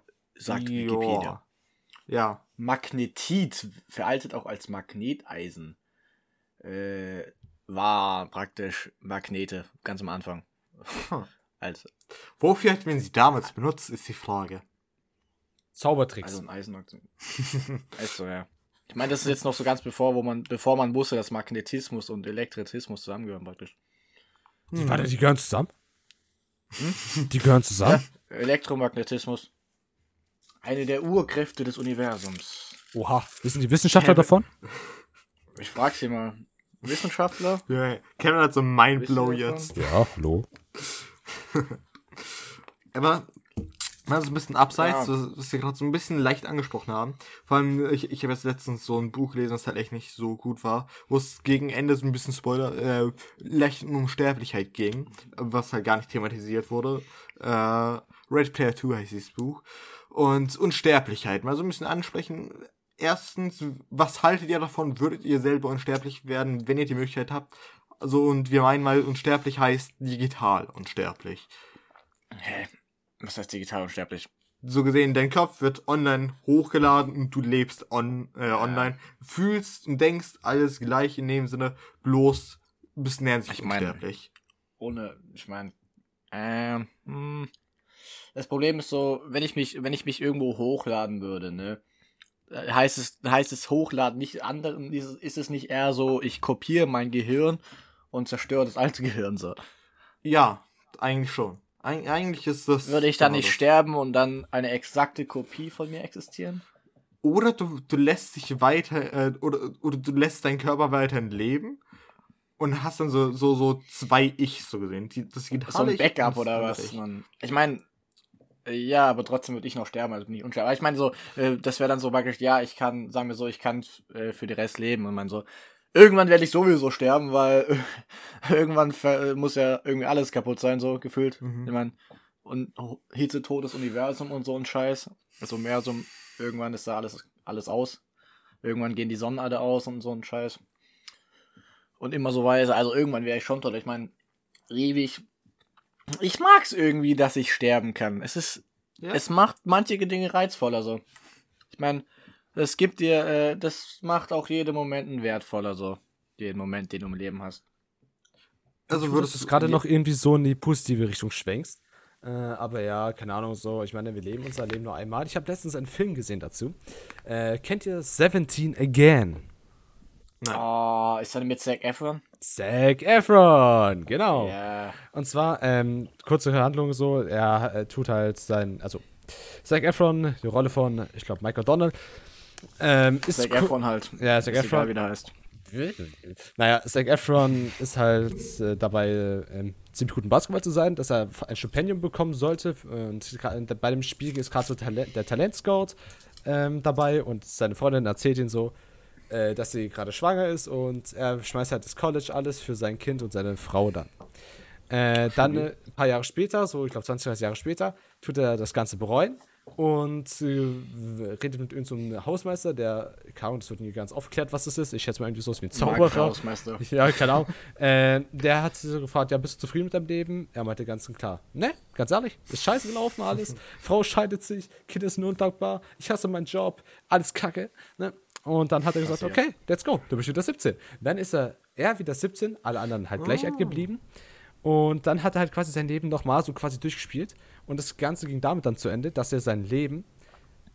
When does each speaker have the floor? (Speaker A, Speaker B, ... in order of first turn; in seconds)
Speaker A: 0.4-1.4, 2.6-5.8, 6.6-11.9, 16.2-17.1, 17.9-23.7, 26.8-27.1, 27.9-29.5, 30.6-32.8, 35.5-37.6, 39.0-39.7, 44.8-45.1, 72.3-72.7, 73.2-74.3, 78.5-78.9, 83.5-84.0, 84.8-85.7, 86.3-87.5, 88.3-91.8, 92.5-97.6, 98.1-99.6, 102.8-106.6, 115.7-117.8, 118.7-138.0, 138.6-140.6, 142.0-144.1, 144.7-145.2, 146.1-151.0, 151.7-157.6, 170.5-172.2, 174.3-175.0, 183.3-185.3, 215.7-216.8, 229.0-229.4
Speaker B: 0.5-1.4, 2.1-2.4, 12.4-14.6, 24.7-25.1, 34.0-34.3, 37.7-39.9, 40.9-42.4, 42.9-43.3, 44.0-71.5, 74.6-84.3, 100.2-103.6, 107.2-111.8, 112.6-117.0, 131.4-131.7, 158.9-159.8, 205.3-205.7, 233.2-233.9
Speaker C: 15.8-16.4, 24.7-25.7, 27.3-28.0, 32.9-34.5, 39.8-40.5, 158.9-169.5, 172.4-174.6, 175.1-182.0, 182.8-184.9, 185.7-198.8, 199.3-204.1, 204.9-234.0, 234.6-240.1